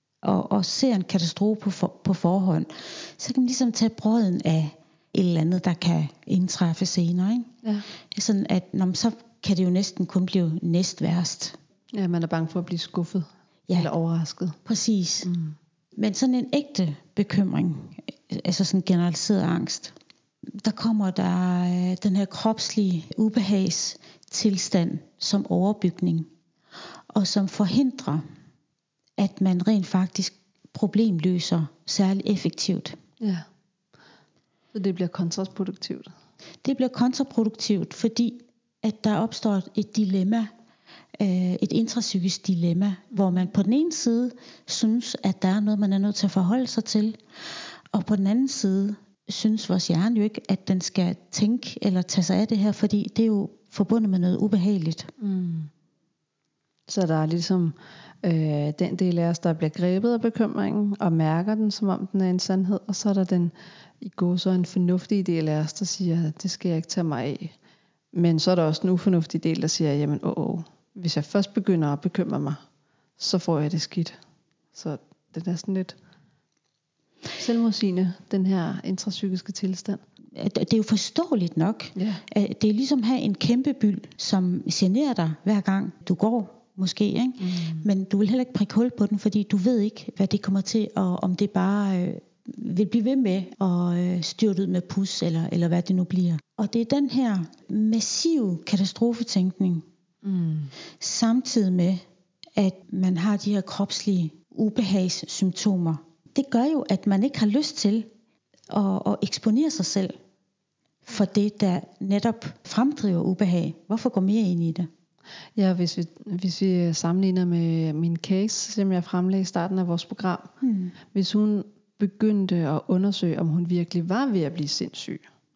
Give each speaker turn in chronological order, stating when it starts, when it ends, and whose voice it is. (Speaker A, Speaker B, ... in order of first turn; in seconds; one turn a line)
Speaker A: 0.2-7.5
Speaker A: 8.1-11.6
Speaker B: 11.9-14.6
Speaker A: 14.6-15.3
Speaker B: 15.2-15.6
Speaker A: 16.0-19.9
Speaker A: 20.6-26.3
Speaker A: 27.1-28.2
Speaker A: 29.2-33.0
Speaker B: 33.2-33.5
Speaker B: 34.7-36.1
Speaker A: 36.6-40.5
Speaker A: 41.2-55.1
Speaker B: 55.2-55.7
Speaker B: 56.9-67.5
Speaker B: 68.1-72.6
Speaker B: 73.2-74.2
Speaker B: 74.7-76.0
Speaker B: 77.4-80.0
Speaker A: 80.3-99.8
Speaker B: 82.0-82.2
Speaker B: 87.4-87.8
Speaker B: 100.2-100.7
Speaker A: 101.0-102.0
Speaker A: 102.5-108.1
Speaker A: 108.7-110.2
Speaker A: 111.0-114.9
Speaker B: 115.5-120.5
Speaker A: 120.6-120.9
Speaker B: 121.1-125.2